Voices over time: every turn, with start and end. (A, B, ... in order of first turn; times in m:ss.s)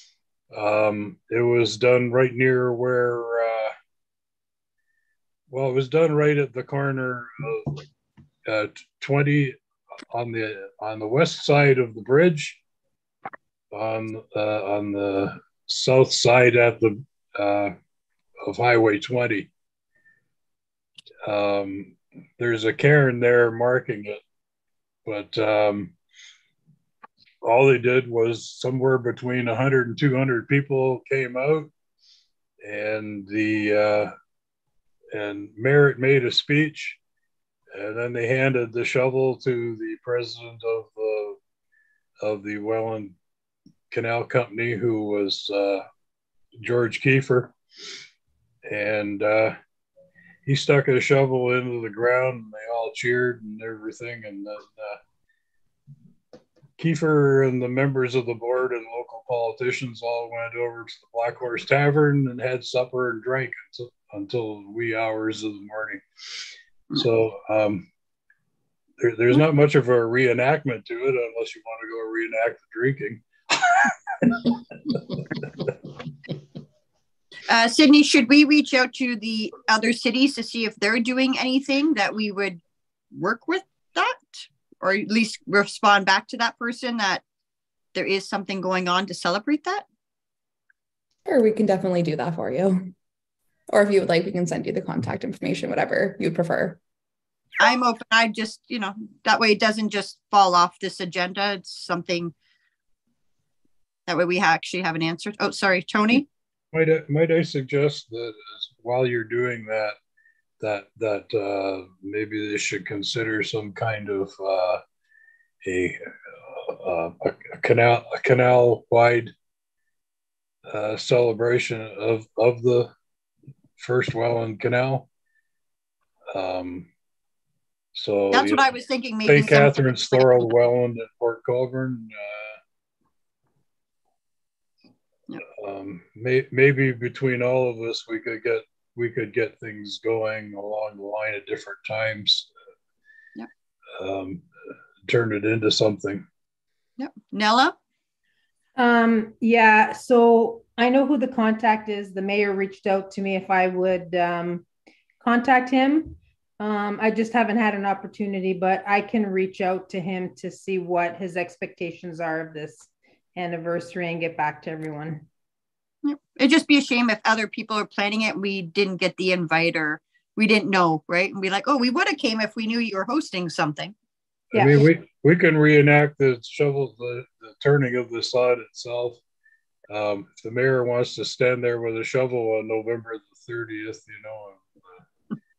0:00.5-0:03.7 A
0:05.5-0:07.8 A
0:08.5-0:09.6 A
0:10.1-0:12.6 A
0:13.7-0:17.8 A
0:18.4-0:19.5 A
0:21.3-0:24.2 A
0:25.1-0:26.0 A
0:27.4-0:31.7 A
0:32.6-0:34.1 A
0:35.1-0:37.0 A
0:37.7-0:41.4 A
0:42.2-0:43.2 A
0:43.9-0:45.8 A
0:46.6-0:47.6 A
0:48.7-0:49.6 A
0:50.5-0:55.0 A
0:56.8-1:06.0 A
1:06.9-1:07.9 A
1:09.0-1:15.0 A
1:17.5-1:22.6 B
1:23.1-1:27.2 B
1:28.0-1:29.8 B
1:31.3-1:32.9 C
1:33.7-1:36.8 C
1:37.6-1:42.3 B
1:44.1-1:46.3 B
1:46.7-1:50.0 A
1:50.6-1:54.8 A
1:55.6-1:59.3 A
2:00.7-2:02.9 A
2:03.8-2:05.1 A
2:06.3-2:06.9 A
2:08.0-2:08.6 A
2:08.3-2:10.5 B
2:09.3-2:12.6 A
2:15.6-2:22.5 A
2:24.0-2:24.4 A
2:25.1-2:26.2 A
2:27.0-2:27.8 B
2:28.8-2:34.7 D
2:35.2-2:45.3 D
2:46.0-2:53.9 B
2:54.5-2:54.9 D
2:54.5-2:59.2 A
2:59.9-3:05.0 A